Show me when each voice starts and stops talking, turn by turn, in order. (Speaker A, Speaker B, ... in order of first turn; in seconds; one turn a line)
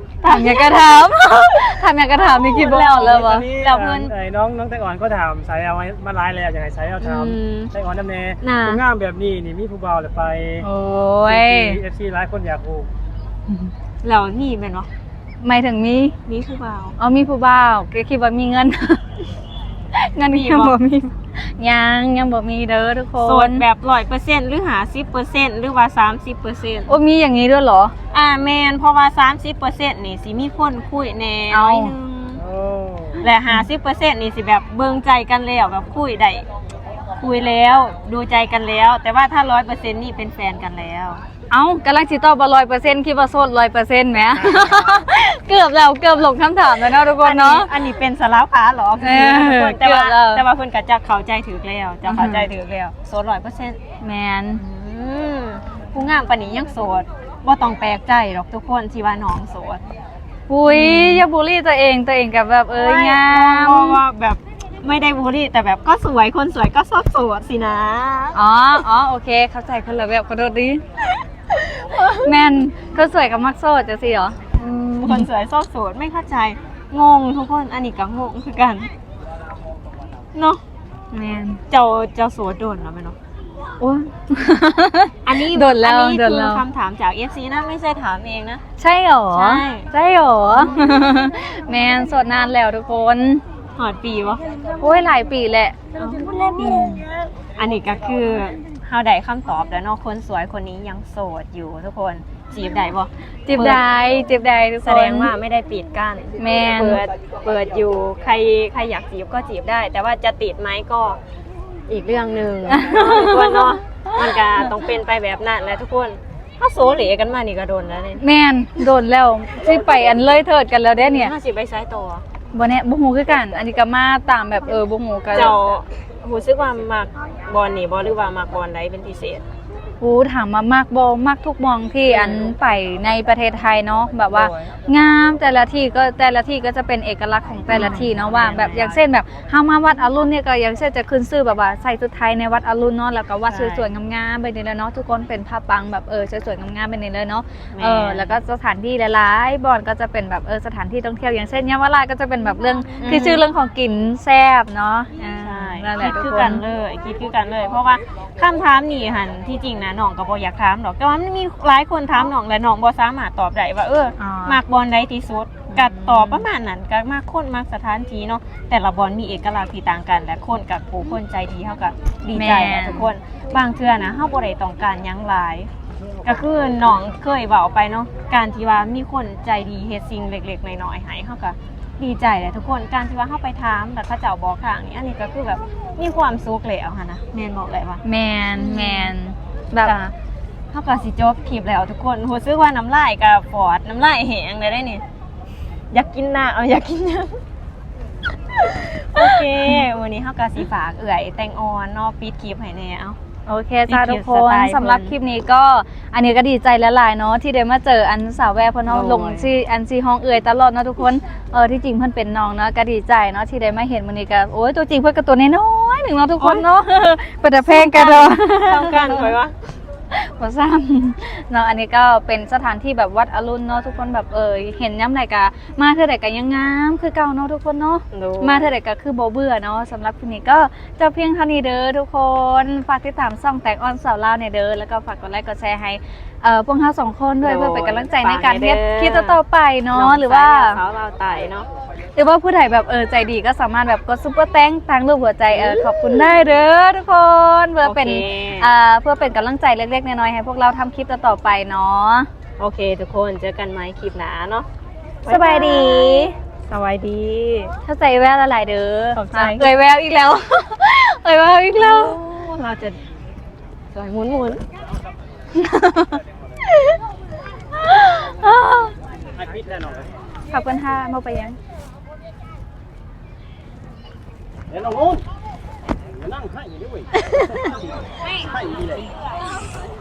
Speaker A: 0.2-4.1
Speaker B: 0.2-3.5
Speaker C: 2.8-10.7
Speaker A: 7.0-7.7
Speaker A: 8.4-8.8
Speaker B: 10.6-11.8
Speaker C: 11.3-12.9
Speaker A: 14.0-14.9
Speaker B: 15.4-16.1
Speaker A: 16.2-16.9
Speaker B: 17.0-19.0
Speaker B: 19.9-23.6
Speaker A: 20.3-20.8
Speaker A: 23.2-26.9
Speaker B: 26.9-27.9
Speaker A: 28.1-32.4
Speaker B: 31.5-31.9
Speaker C: 32.4-33.2
Speaker A: 33.2-36.4
Speaker A: 37.2-41.2
Speaker B: 41.5-47.7
Speaker A: 47.0-53.8
Speaker B: 49.0-50.4
Speaker B: 52.0-52.5
Speaker B: 54.0-54.6
Speaker A: 54.5-59.8
Speaker B: 60.5-64.0
Speaker A: 60.7-61.3
Speaker A: 62.7-68.4
Speaker B: 68.3-70.8
Speaker A: 71.6-72.3
Speaker B: 72.0-74.4
Speaker A: 74.5-78.9
Speaker A: 80.3-80.6
Speaker B: 81.1-81.6
Speaker A: 81.7-83.2
Speaker B: 83.8-86.6
Speaker A: 85.2-88.6
Speaker B: 88.8-93.4
Speaker A: 89.3-89.9
Speaker A: 93.8-94.4
Speaker B: 94.8-95.8
Speaker A: 96.0-103.8
Speaker B: 96.6-97.0
Speaker B: 103.5-105.3
Speaker A: 104.8-111.2
Speaker B: 106.4-107.0
Speaker A: 111.9-118.2
Speaker B: 112.7-113.7
Speaker B: 118.2-121.3
Speaker A: 121.0-122.2
Speaker B: 122.5-125.6
Speaker A: 125.3-129.4
Speaker B: 130.0-156.6
Speaker A: 132.1-132.5
Speaker A: 134.3-134.7
Speaker A: 137.7-139.0
Speaker A: 143.5-143.9
Speaker A: 147.7-148.3
Speaker A: 153.0-153.4
Speaker A: 155.3-175.7
Speaker B: 164.2-164.6
Speaker B: 165.7-166.4
Speaker B: 172.3-173.1
Speaker A: 176.2-188.0
Speaker B: 188.0-189.9
Speaker A: 188.6-189.1
Speaker A: 189.8-190.1
Speaker A: 190.7-195.0
Speaker A: 195.9-197.4
Speaker A: 198.5-203.2
Speaker B: 199.2-199.7
Speaker B: 203.4-219.3
Speaker A: 203.9-205.1
Speaker A: 208.8-209.5
Speaker A: 216.4-216.6
Speaker A: 217.6-219.7
Speaker B: 220.1-240.8
Speaker A: 228.1-228.7
Speaker A: 237.4-239.4
Speaker A: 239.9-241.7
Speaker B: 242.1-252.3
Speaker A: 245.5-246.3
Speaker A: 247.8-248.7
Speaker A: 252.6-254.7
Speaker A: 255.2-257.7
Speaker B: 255.3-256.3
Speaker B: 257.8-262.1
Speaker A: 259.1-259.7
Speaker A: 261.8-263.0
Speaker A: 263.9-264.6
Speaker B: 265.5-266.2
Speaker B: 267.8-268.9
Speaker B: 270.5-271.6
Speaker A: 277.2-277.7
Speaker A: 278.3-279.1